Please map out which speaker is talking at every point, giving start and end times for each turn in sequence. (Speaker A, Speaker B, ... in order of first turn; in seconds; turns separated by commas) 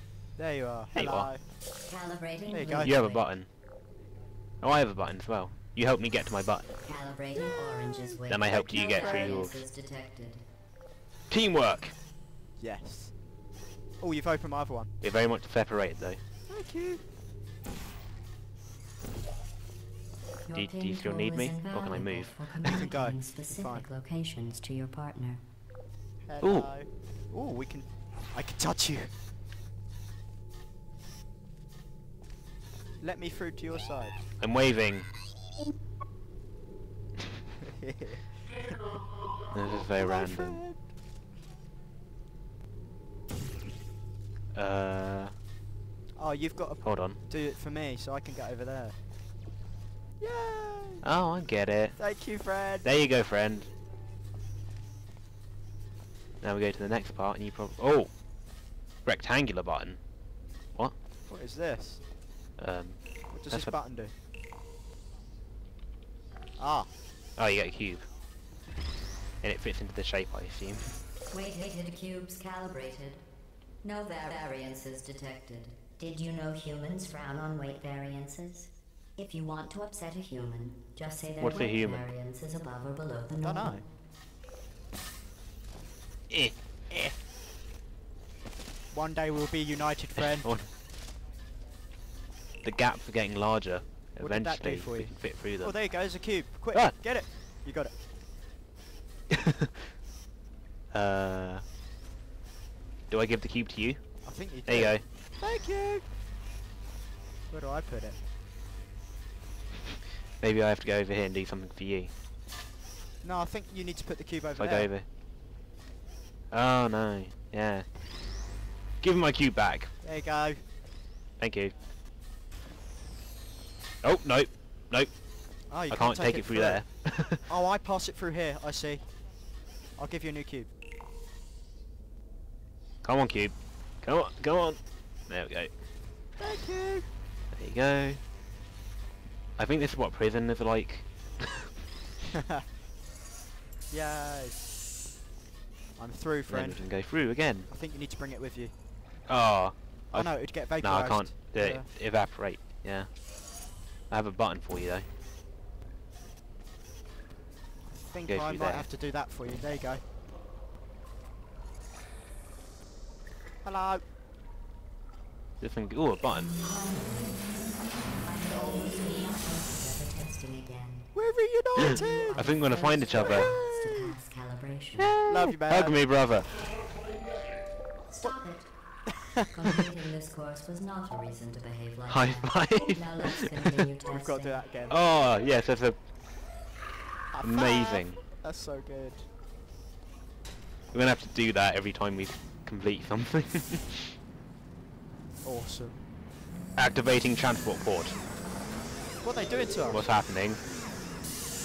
Speaker A: 0.4-1.5, Speaker B: 0.9-1.3, Speaker C: 1.8-3.3, Speaker A: 2.5-3.0, Speaker B: 2.8-3.5, Speaker B: 4.6-6.7, Speaker C: 6.8-10.5, Speaker B: 8.3-9.6, Speaker A: 8.5-9.5, Speaker B: 11.3-12.0, Speaker A: 12.6-13.2, Speaker A: 14.0-14.9, Speaker B: 15.0-16.2, Speaker A: 16.5-17.0, Speaker C: 20.4-25.4, Speaker B: 20.5-22.5, Speaker A: 22.7-23.9, Speaker A: 26.2-29.2, Speaker B: 26.4-26.7, Speaker A: 33.0-34.2, Speaker B: 34.4-35.1, Speaker A: 37.7-39.0, Speaker B: 39.5-40.6, Speaker A: 40.0-40.8, Speaker B: 44.5-45.3, Speaker A: 46.2-49.0, Speaker B: 46.8-47.2, Speaker A: 50.2-51.0, Speaker B: 51.0-52.0, Speaker A: 52.0-52.9, Speaker B: 52.8-53.7, Speaker B: 56.4-58.1, Speaker B: 59.0-60.0, Speaker A: 61.3-62.0, Speaker B: 62.6-63.8, Speaker A: 63.3-64.2, Speaker A: 66.6-66.9, Speaker B: 67.4-68.1, Speaker B: 69.4-70.9, Speaker C: 71.3-73.2, Speaker C: 73.8-83.9, Speaker A: 74.2-74.5, Speaker B: 81.4-82.1, Speaker A: 83.4-83.8, Speaker B: 86.3-87.0, Speaker A: 88.9-90.5, Speaker B: 90.2-90.7, Speaker B: 92.6-95.8, Speaker A: 94.2-97.9, Speaker B: 99.3-99.9, Speaker B: 100.9-101.7, Speaker B: 103.1-104.0, Speaker A: 104.2-106.1, Speaker B: 104.7-105.0, Speaker A: 107.5-108.2, Speaker B: 110.4-112.1, Speaker A: 113.2-115.0, Speaker B: 114.6-115.1, Speaker B: 116.5-117.8, Speaker B: 119.0-119.9, Speaker A: 120.0-120.7, Speaker B: 121.4-121.7, Speaker B: 124.0-125.1, Speaker A: 125.7-126.9, Speaker B: 125.9-127.5, Speaker A: 127.5-129.1, Speaker A: 130.0-130.7, Speaker B: 133.0-135.7, Speaker A: 136.4-137.1, Speaker B: 137.5-138.2, Speaker B: 139.6-141.7, Speaker A: 142.4-142.7, Speaker A: 143.9-144.7, Speaker A: 146.0-147.0, Speaker B: 146.5-147.7, Speaker A: 147.7-148.7, Speaker B: 149.3-153.1, Speaker A: 150.1-151.9, Speaker B: 154.1-155.1, Speaker A: 157.9-160.0, Speaker B: 158.3-158.9, Speaker A: 163.6-164.0, Speaker B: 165.6-166.6, Speaker C: 166.6-167.4, Speaker C: 168.2-171.1, Speaker A: 171.1-172.5, Speaker C: 171.8-175.1, Speaker B: 171.8-173.5, Speaker A: 173.1-174.2, Speaker B: 175.0-176.6, Speaker A: 175.3-176.2, Speaker C: 178.1-184.6, Speaker A: 179.4-179.8, Speaker B: 182.1-183.8, Speaker A: 184.1-185.1, Speaker B: 184.9-186.0, Speaker A: 187.3-189.3, Speaker B: 187.4-188.3, Speaker B: 190.9-194.1, Speaker A: 195.4-196.0, Speaker B: 196.8-198.2, Speaker A: 199.2-200.1, Speaker B: 199.9-200.6